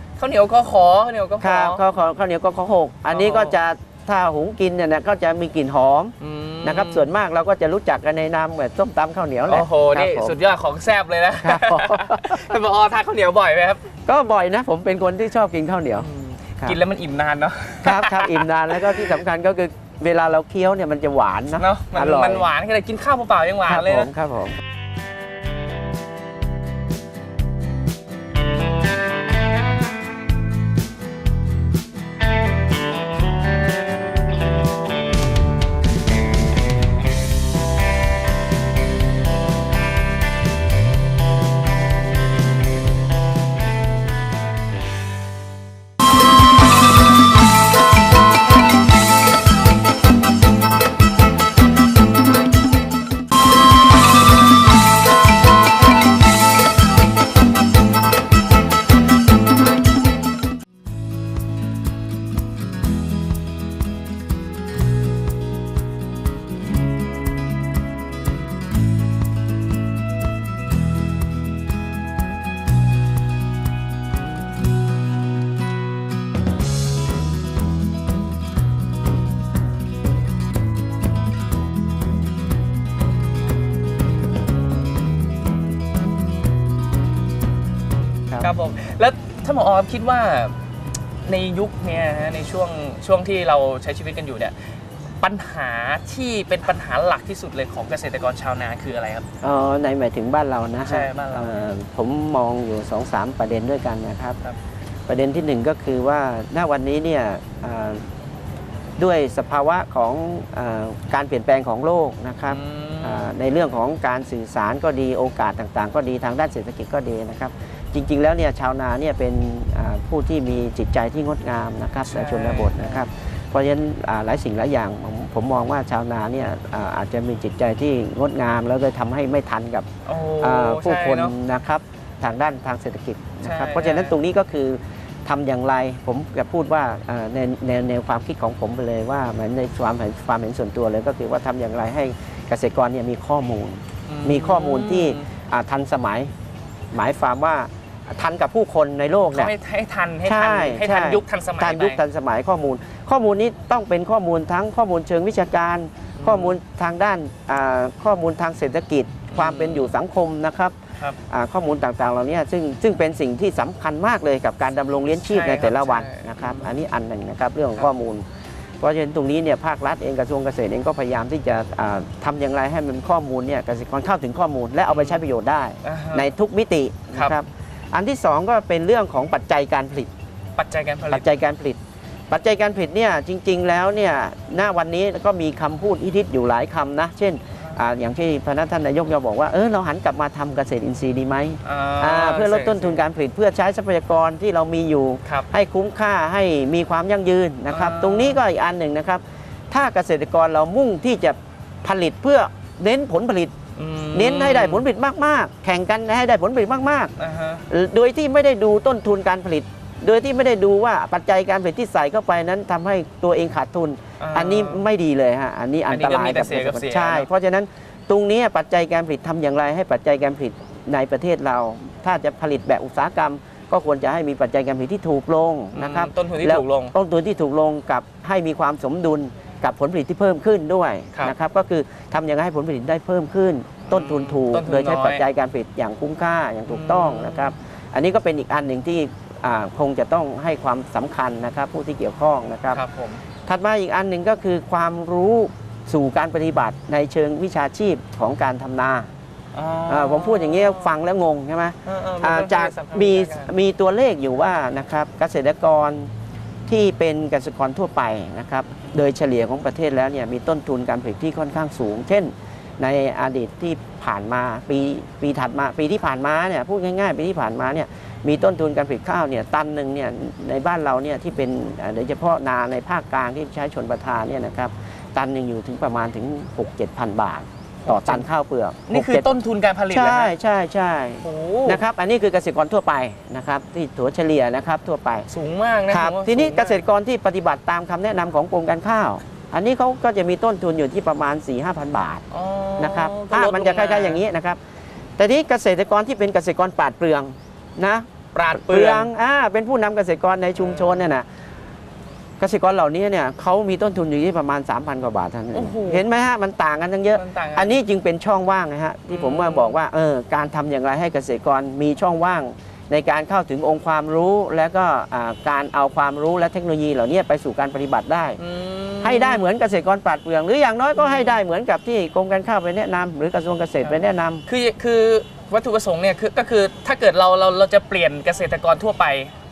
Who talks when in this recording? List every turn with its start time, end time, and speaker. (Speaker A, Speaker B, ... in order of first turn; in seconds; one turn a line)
Speaker A: 0.2-1.8
Speaker B: 1.4-10.3
Speaker A: 3.1-3.5
Speaker A: 6.2-7.1
Speaker A: 9.5-13.8
Speaker B: 11.4-12.6
Speaker B: 14.1-16.1
Speaker A: 16.0-19.1
Speaker B: 17.8-22.5
Speaker A: 21.6-24.1
Speaker B: 23.7-24.6
Speaker A: 88.4-90.6
Speaker A: 91.2-94.6
Speaker A: 95.2-99.3
Speaker B: 99.4-104.4
Speaker A: 100.9-101.6
Speaker B: 105.1-108.0
Speaker B: 109.0-129.9
Speaker A: 112.5-113.3
Speaker A: 122.0-123.1
Speaker A: 130.1-131.3
Speaker B: 130.4-146.3
Speaker A: 133.4-134.2
Speaker A: 144.1-145.3
Speaker B: 146.9-149.5
Speaker A: 149.3-152.0
Speaker B: 150.2-160.8
Speaker A: 156.2-156.6
Speaker A: 159.3-159.9
Speaker B: 161.3-168.2
Speaker A: 165.3-166.7
Speaker B: 168.8-180.1
Speaker A: 174.9-175.2
Speaker A: 175.8-176.3
Speaker A: 180.6-181.3
Speaker B: 181.1-181.8
Speaker B: 182.3-203.5
Speaker A: 191.6-193.0
Speaker A: 197.7-198.4
Speaker A: 203.8-204.8
Speaker B: 204.1-207.1
Speaker A: 207.2-207.7
Speaker B: 207.7-242.8
Speaker A: 214.2-214.8
Speaker A: 215.9-217.3
Speaker A: 225.7-226.9
Speaker A: 233.9-235.2
Speaker A: 236.7-237.5
Speaker A: 242.7-243.2
Speaker B: 243.4-249.1
Speaker A: 249.5-250.9
Speaker B: 249.9-256.1
Speaker A: 251.8-253.5
Speaker B: 256.7-279.3
Speaker A: 277.9-278.2
Speaker A: 278.9-280.3
Speaker B: 279.9-285.3
Speaker A: 281.2-281.8
Speaker A: 285.3-286.8
Speaker B: 285.9-292.2
Speaker A: 292.3-294.2
Speaker B: 292.8-294.6
Speaker B: 295.2-301.3
Speaker A: 298.3-299.1
Speaker A: 300.6-301.1
Speaker B: 302.4-318.4
Speaker A: 305.5-306.0
Speaker A: 307.1-307.8
Speaker A: 309.1-309.8
Speaker A: 318.4-319.5
Speaker B: 319.0-324.4
Speaker A: 321.0-321.4
Speaker A: 323.8-329.3